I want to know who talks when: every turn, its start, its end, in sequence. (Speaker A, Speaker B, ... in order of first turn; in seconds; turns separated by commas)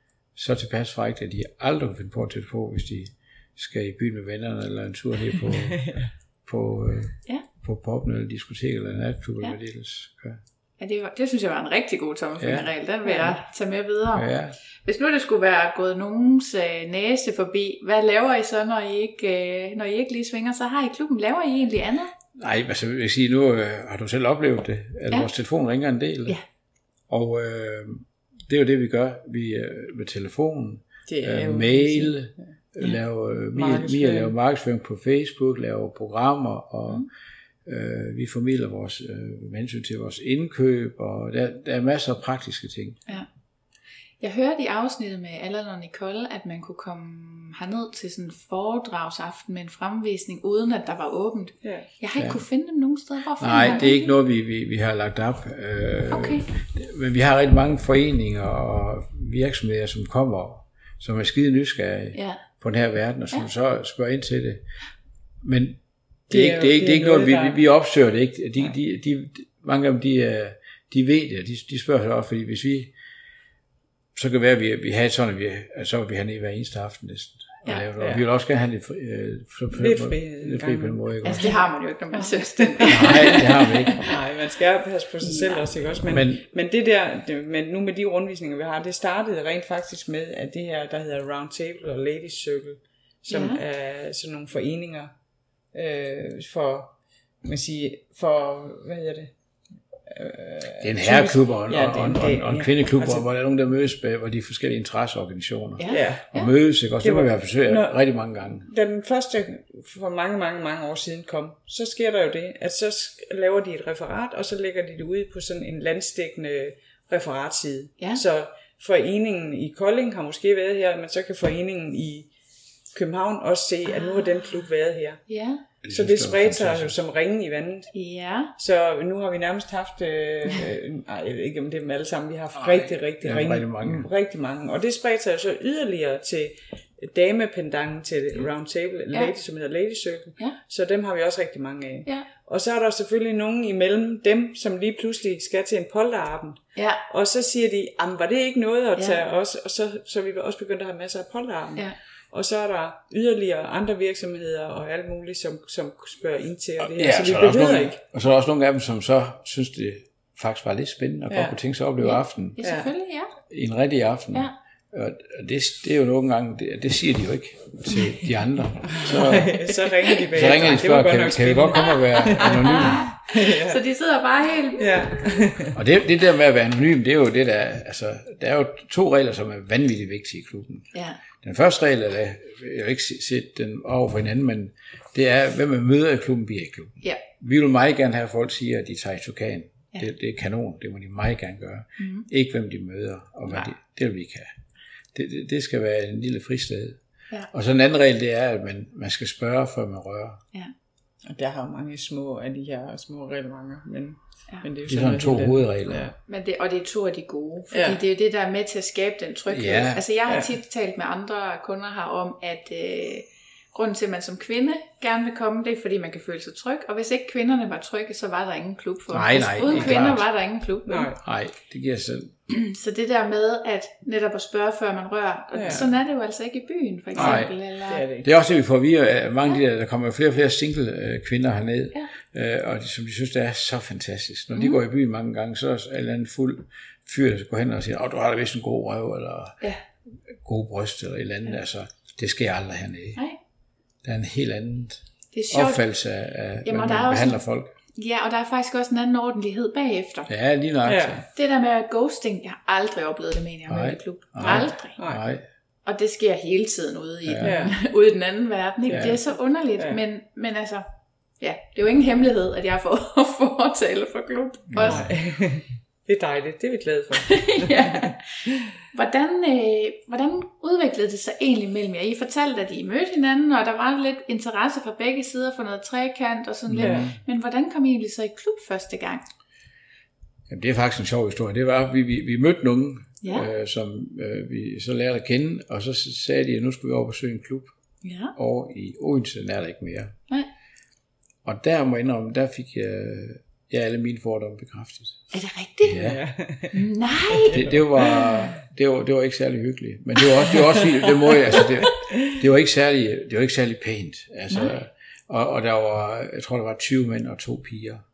Speaker A: 0.3-5.9, Speaker B: 5.5-6.1, Speaker A: 6.5-10.4, Speaker C: 10.8-14.3, Speaker A: 12.4-12.7, Speaker B: 13.1-13.4, Speaker A: 14.2-14.6, Speaker C: 14.8-22.1, Speaker A: 22.4-26.4, Speaker A: 27.1-37.1, Speaker B: 31.1-32.4, Speaker B: 33.5-34.4, Speaker A: 37.6-43.0, Speaker C: 44.2-54.1, Speaker B: 51.6-51.9, Speaker A: 52.2-52.4, Speaker A: 53.4-64.6, Speaker C: 56.1-56.5, Speaker C: 62.1-62.4, Speaker A: 65.4-72.9, Speaker B: 66.3-67.6, Speaker A: 74.2-81.5, Speaker B: 79.8-83.5, Speaker C: 81.2-84.1, Speaker A: 82.9-84.0, Speaker B: 84.0-95.1, Speaker C: 85.2-85.7, Speaker A: 86.1-86.4, Speaker C: 93.3-93.6, Speaker B: 95.7-99.3, Speaker B: 100.1-103.3, Speaker A: 100.8-108.7, Speaker C: 105.8-106.5, Speaker B: 105.9-106.3, Speaker B: 107.0-122.3, Speaker B: 122.9-125.2, Speaker C: 123.9-124.7, Speaker C: 125.3-125.6, Speaker A: 125.8-127.0, Speaker B: 125.9-127.9, Speaker C: 127.9-128.5, Speaker B: 128.6-158.0, Speaker A: 132.6-134.1, Speaker A: 156.8-162.6, Speaker B: 161.3-161.6, Speaker C: 162.0-163.3, Speaker B: 162.6-162.9, Speaker A: 163.5-169.6, Speaker B: 168.8-173.8, Speaker A: 170.3-173.1, Speaker C: 171.8-174.9, Speaker B: 174.8-175.8, Speaker A: 175.7-194.6, Speaker C: 180.9-181.2, Speaker C: 192.0-192.3, Speaker A: 195.1-197.0, Speaker A: 197.5-200.4, Speaker B: 201.3-206.2, Speaker A: 204.9-206.1, Speaker C: 206.3-221.1, Speaker B: 207.7-208.0, Speaker A: 209.5-210.0, Speaker A: 219.1-220.2, Speaker B: 220.9-221.2, Speaker A: 221.2-222.3, Speaker C: 222.5-228.0, Speaker B: 225.5-225.9, Speaker B: 227.1-228.3, Speaker A: 227.2-227.6, Speaker A: 228.2-239.6, Speaker C: 234.5-234.8, Speaker A: 240.3-243.2, Speaker A: 244.0-247.7, Speaker C: 245.3-245.8, Speaker C: 246.7-247.4, Speaker C: 247.9-250.3, Speaker A: 250.3-251.2, Speaker B: 250.8-251.2, Speaker C: 251.3-255.0, Speaker A: 253.7-255.4, Speaker B: 254.4-255.2, Speaker C: 255.9-260.9, Speaker A: 257.2-257.7, Speaker B: 257.4-257.8, Speaker B: 258.9-259.2, Speaker A: 258.9-259.2, Speaker C: 261.4-265.0, Speaker A: 264.7-265.1, Speaker B: 264.8-268.7, Speaker C: 267.3-279.2, Speaker A: 276.7-277.2, Speaker B: 276.8-277.1, Speaker A: 280.5-287.8, Speaker C: 283.2-283.5, Speaker C: 288.0-288.3, Speaker A: 288.4-290.1, Speaker A: 291.4-295.3, Speaker C: 295.3-296.0, Speaker A: 295.9-296.2, Speaker B: 295.9-298.5, Speaker C: 296.7-297.6, Speaker A: 297.5-308.0, Speaker B: 300.6-302.4, Speaker C: 304.5-304.8